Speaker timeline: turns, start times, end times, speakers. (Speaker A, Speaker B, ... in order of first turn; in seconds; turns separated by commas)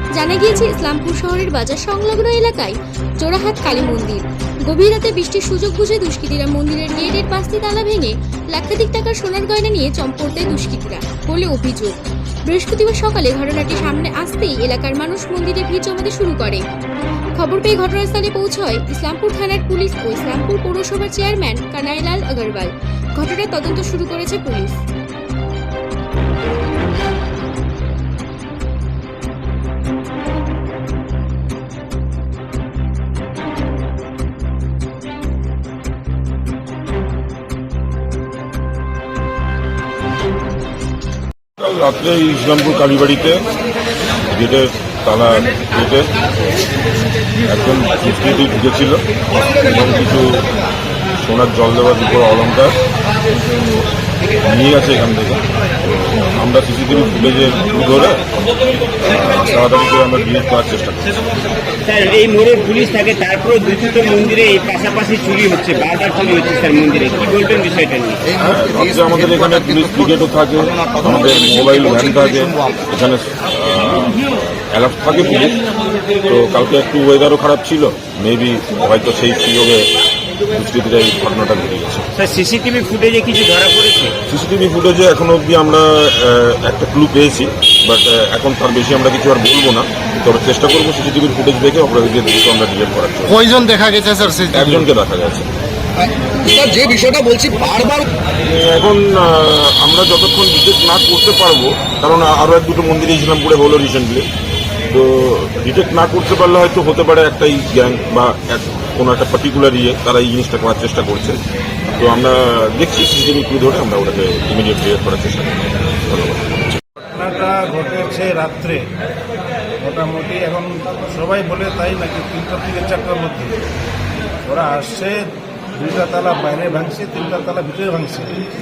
Speaker A: 0.1-16.6, Speaker A: 17.4-24.8, Speaker B: 41.6-43.4, Speaker B: 44.2-46.1, Speaker B: 47.4-50.5, Speaker B: 51.2-52.8, Speaker B: 54.4-61.3, Speaker C: 61.9-68.3, Speaker B: 68.4-75.6, Speaker B: 76.2-79.9, Speaker B: 80.5-82.1, Speaker C: 82.2-84.2, Speaker B: 84.3-93.4, Speaker D: 93.3-94.7, Speaker B: 94.5-95.5, Speaker D: 96.5-98.0, Speaker B: 98.4-104.3, Speaker B: 104.9-116.6, Speaker E: 117.0-118.8, Speaker E: 119.8-123.6, Speaker E: 124.5-125.2, Speaker E: 125.8-128.4